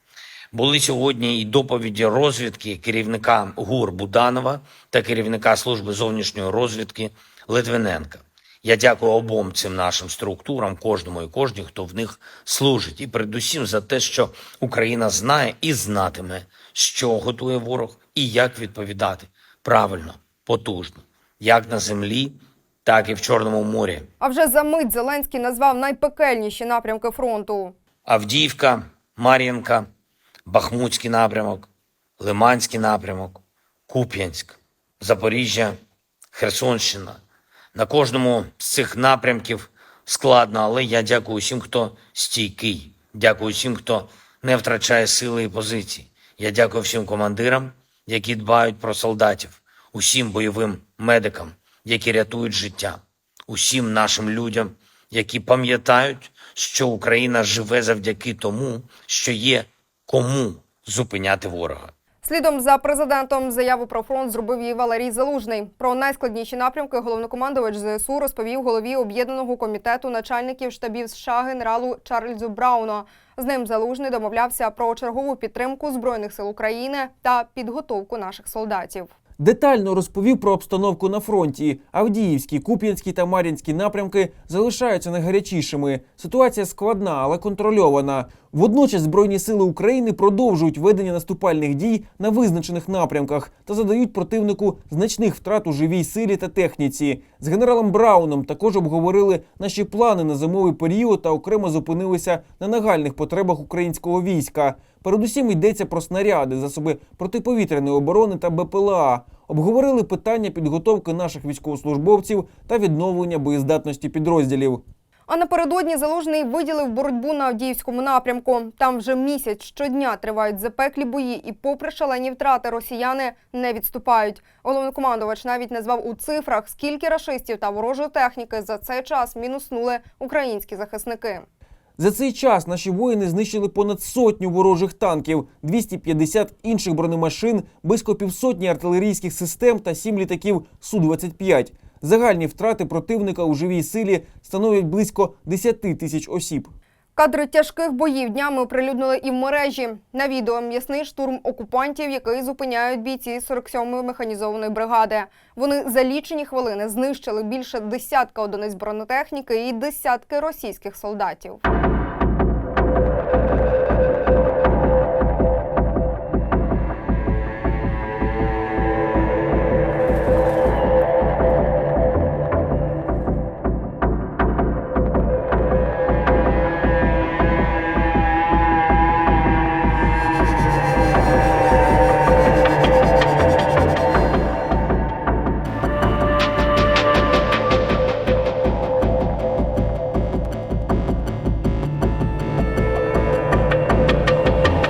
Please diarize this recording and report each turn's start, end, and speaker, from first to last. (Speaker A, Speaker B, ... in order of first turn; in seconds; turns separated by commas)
Speaker A: 0.5-24.1, Speaker B: 24.2-27.7, Speaker A: 28.1-29.8, Speaker A: 30.4-31.7, Speaker A: 32.2-35.7, Speaker A: 36.3-37.2, Speaker A: 37.7-61.9, Speaker B: 62.2-79.1, Speaker C: 79.4-114.8, Speaker B: 115.3-131.4, Speaker C: 132.0-146.7, Speaker B: 147.1-161.6